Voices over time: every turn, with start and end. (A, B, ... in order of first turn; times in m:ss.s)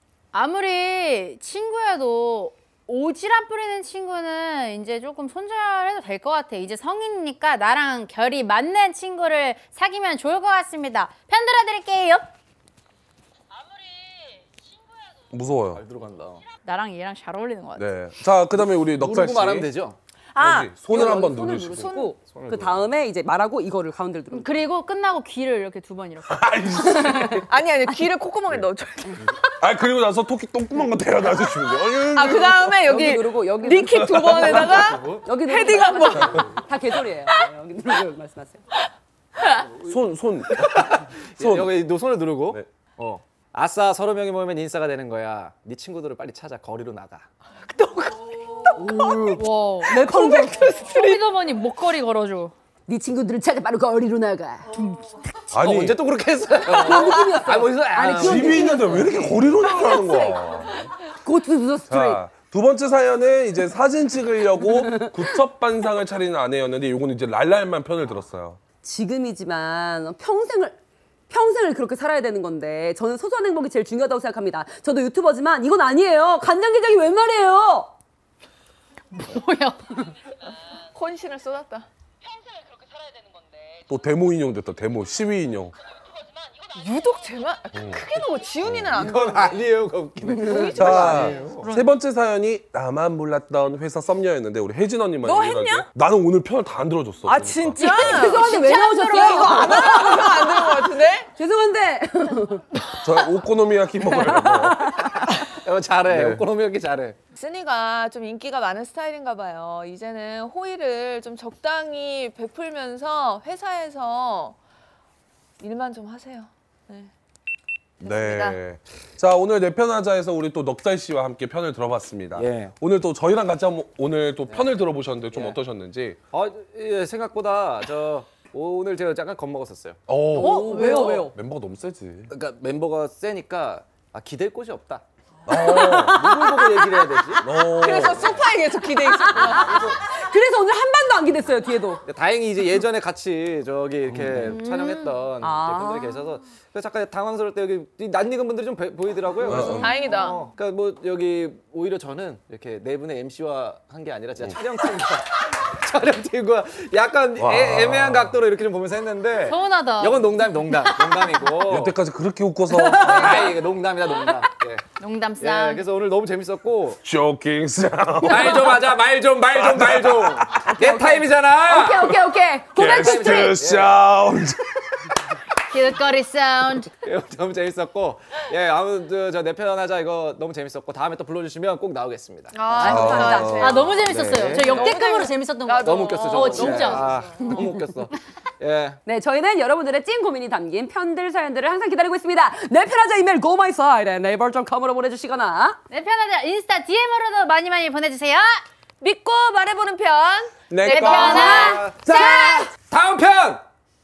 0:00.3-0:12.3 A
0:15.3-0:15.8 B
0:15.7-0:16.4 C
0:16.6-0:17.9 A
0:17.8-0:19.7 B
0:18.6-0:20.0 C
0:20.3-0:22.2 D
0:20.4-0:21.9 B
0:20.9-0:24.5 E
0:22.2-0:22.9 C
0:24.3-0:26.5 A
0:26.3-0:27.4 B
0:27.3-0:29.4 D
0:29.6-0:32.7 B
0:32.1-0:36.6 D
0:32.8-0:38.6 E
0:33.9-0:34.8 B
0:34.6-0:35.2 C
0:39.8-0:41.7 B
0:40.6-0:47.2 C
0:47.6-0:51.2 D
0:48.8-0:50.8 E
0:49.4-0:49.9 A
0:50.8-0:52.5 A
0:52.9-0:54.6 E
0:55.5-0:56.0 B
0:55.6-0:59.5 C
0:56.7-1:00.4 E
0:56.8-0:57.3 D
0:58.1-1:00.9 B
1:01.2-1:02.2 E
1:01.9-1:08.6 B
1:08.8-1:10.8 E
1:11.3-1:17.9 E
1:19.1-1:19.8 A
1:20.9-1:21.8 D
1:23.9-1:25.7 B
1:26.8-1:29.6 D
1:27.7-1:28.0 B
1:28.6-1:29.0 B
1:29.0-1:31.6 C
1:30.3-1:31.5 D
1:30.4-1:30.7 E
1:30.8-1:38.4 B
1:31.6-1:31.9 A
1:35.2-1:35.8 D
1:37.2-1:41.3 D
1:37.8-1:40.3 A
1:37.8-1:42.6 E
1:42.9-1:45.0 B
1:44.2-1:45.0 E
1:45.0-1:47.2 C
1:46.1-1:46.4 B
1:47.3-1:54.6 D
1:55.6-1:57.1 D
1:58.0-1:58.6 D
1:58.0-2:06.2 B
2:02.3-2:02.7 C
2:04.5-2:04.7 C
2:05.3-2:05.6 C
2:06.3-2:10.0 C
2:10.1-2:12.3 B
2:10.3-2:11.3 E
2:10.4-2:11.3 A
2:10.8-2:11.2 D
2:12.3-2:15.0 C
2:15.5-2:16.3 B
2:15.5-2:17.3 E
2:15.8-2:17.4 C
2:17.4-2:18.3 B
2:17.7-2:19.9 D
2:18.1-2:18.4 C
2:18.9-2:22.0 E
2:19.6-2:19.9 C
2:22.0-2:41.9 C
2:24.1-2:24.6 B
2:24.6-2:25.1 A
2:25.4-2:26.2 E
2:29.4-2:30.0 B
2:29.5-2:30.4 D
2:37.4-2:38.4 B
2:39.4-2:41.3 A
2:41.6-2:43.5 B
2:42.7-2:43.6 E
2:42.8-2:44.8 C
2:45.0-2:45.8 A
2:45.4-2:47.0 C
2:47.0-2:48.9 B
2:48.2-2:52.1 C
2:49.5-2:50.7 B
2:50.6-2:53.6 E
2:52.7-2:55.1 B
2:52.9-2:54.0 C
2:55.7-2:56.9 A
2:57.0-3:03.2 C
3:02.5-3:07.4 D
3:02.7-3:03.7 E
3:02.8-3:04.0 B
3:03.6-3:07.6 A
3:04.0-3:05.0 C
3:05.7-3:09.0 C
3:07.4-3:07.8 E
3:09.0-3:15.8 E
3:15.9-3:18.5 A
3:19.0-3:22.7 D
3:20.7-3:22.6 B
3:20.8-3:22.6 A
3:21.2-3:21.8 E
3:21.5-3:21.9 C
3:22.8-3:23.6 C